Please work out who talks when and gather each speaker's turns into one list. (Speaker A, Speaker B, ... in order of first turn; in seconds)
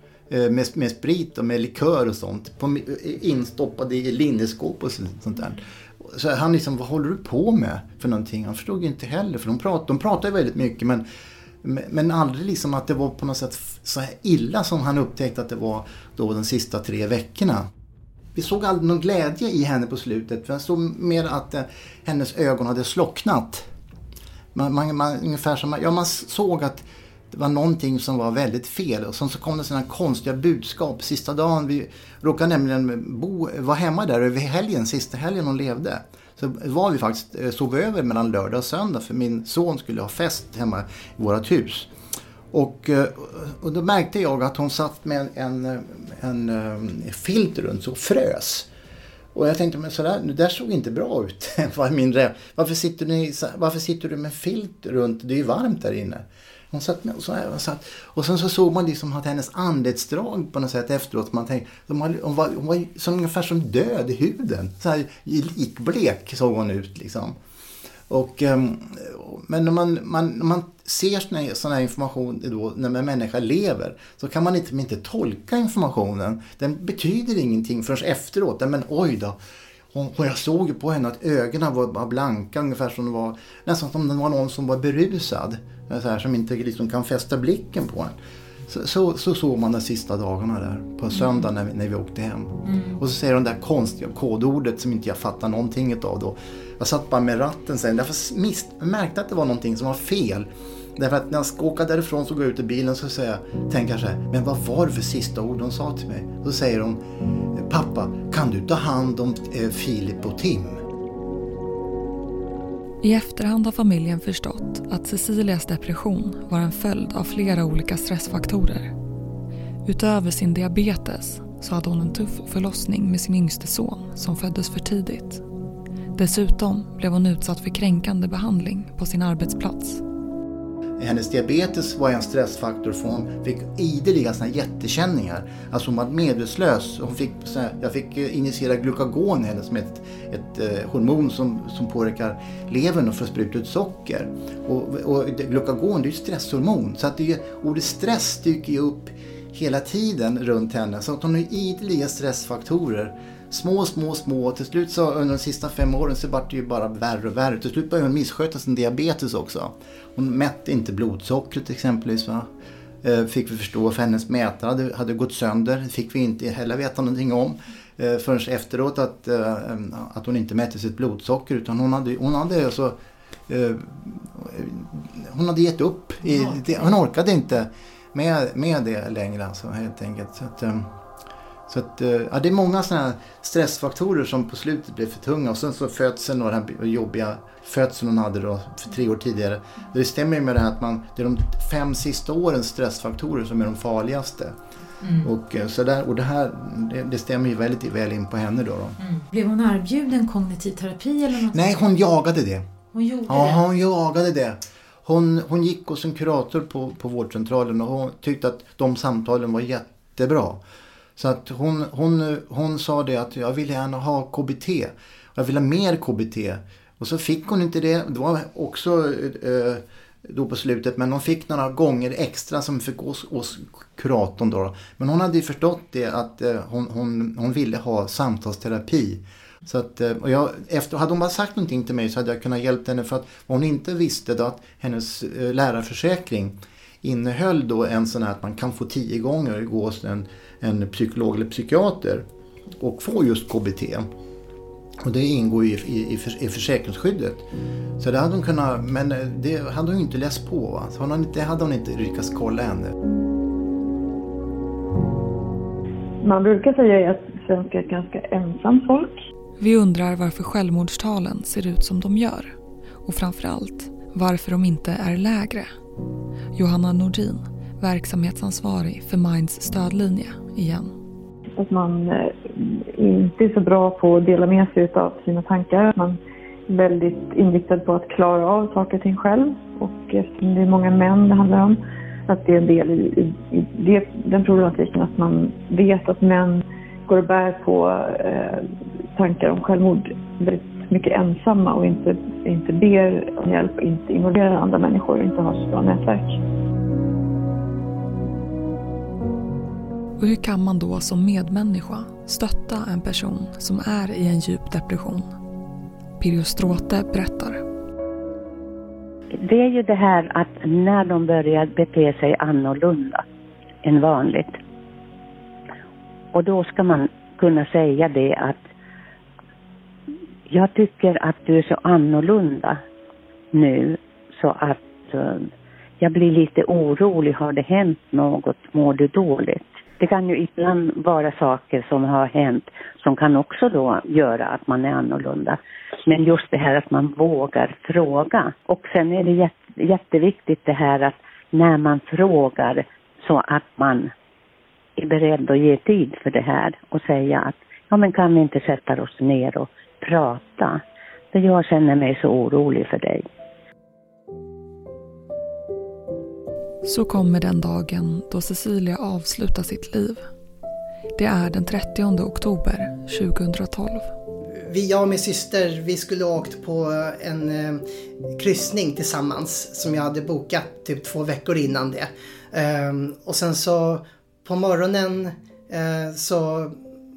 Speaker A: 0.3-11.0, 11.6-17.7, 18.3-23.6, 24.5-41.9, 42.5-48.7, 49.3-67.3, 68.1-79.4, 79.9-88.1, 88.7-107.0, 107.5-110.8, 131.0-162.5, 163.0-173.0, 173.5-180.9, 181.7-194.5, 195.2-199.0, 201.5-202.7, 203.2-210.6, 211.2-242.2, 242.8-244.1, 245.0-247.4, 248.0-252.9
Speaker B: 113.0-118.9, 119.8-125.4, 126.1-130.0, 259.6-262.5, 263.0-265.7, 266.5-270.9, 300.2-305.3, 306.2-307.6, 356.8-360.2, 361.2-364.1
Speaker C: 195.0-195.3, 199.0-201.6, 202.9-203.6
Speaker D: 256.2-259.1, 271.6-296.4
Speaker E: 309.4-313.2, 313.8-314.6, 316.3-318.6, 320.5-322.8, 323.5-325.5, 326.0-344.1, 345.0-350.8, 351.3-353.3
Speaker F: 364.6-367.8, 368.4-376.8